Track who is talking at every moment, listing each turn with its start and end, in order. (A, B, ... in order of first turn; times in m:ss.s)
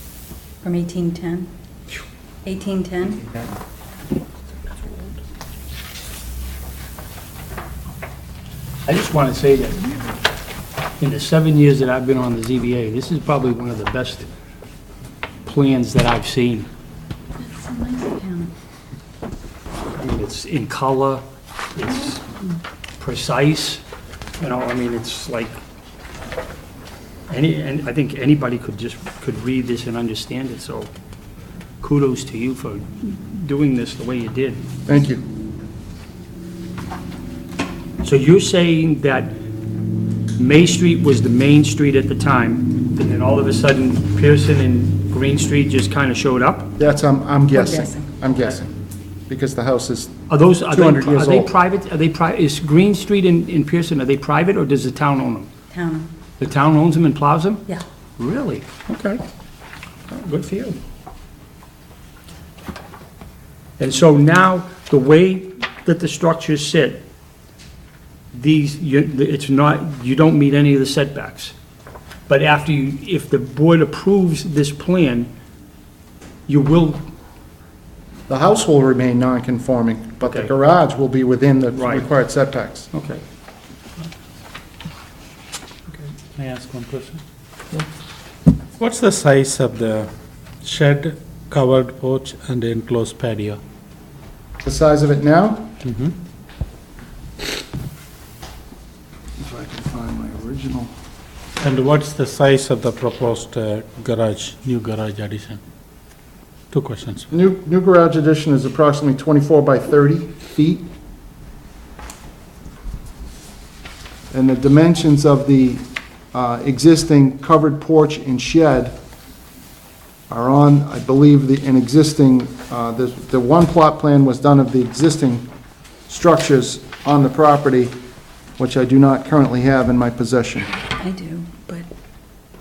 0:00.6-0:01.5 A
0:02.4-0:03.2 A
0:08.9-0:10.2 B
0:11.0-0:14.3 B
0:15.5-0:16.7 B
0:17.4-0:18.5 A
0:20.0-0:21.2 B
0:21.8-0:22.3 B
0:23.0-0:23.8 B
0:24.4-0:25.6 B
0:27.3-0:30.9 B
0:31.8-0:34.7 B
0:34.9-0:35.2 C
0:38.0-0:39.4 B
0:40.4-0:46.8 B
0:46.8-0:48.7 C
0:47.5-0:48.1 A
0:49.3-0:50.2 C
0:50.3-0:55.5 B
0:50.7-0:51.5 C
0:55.7-0:56.1 A
0:56.4-0:59.2 B
1:00.1-1:00.8 B
1:03.8-1:07.0 B
1:08.3-1:11.5 B
1:12.3-1:15.3 B
1:16.5-1:17.1 B
1:18.3-1:22.9 C
1:20.2-1:20.5 B
1:21.7-1:22.1 B
1:22.9-1:23.2 B
1:26.4-1:27.2 D
1:28.8-1:30.1 D
1:30.6-1:33.6 D
1:34.6-1:35.7 C
1:35.8-1:36.1 D
1:39.4-1:40.9 C
1:41.6-1:45.6 D
1:46.7-1:47.3 D
1:47.3-1:50.9 C
1:54.3-1:59.0 C
2:00.3-2:05.5 C
2:06.1-2:08.0 C
2:08.6-2:10.7 C
2:11.0-2:11.9 A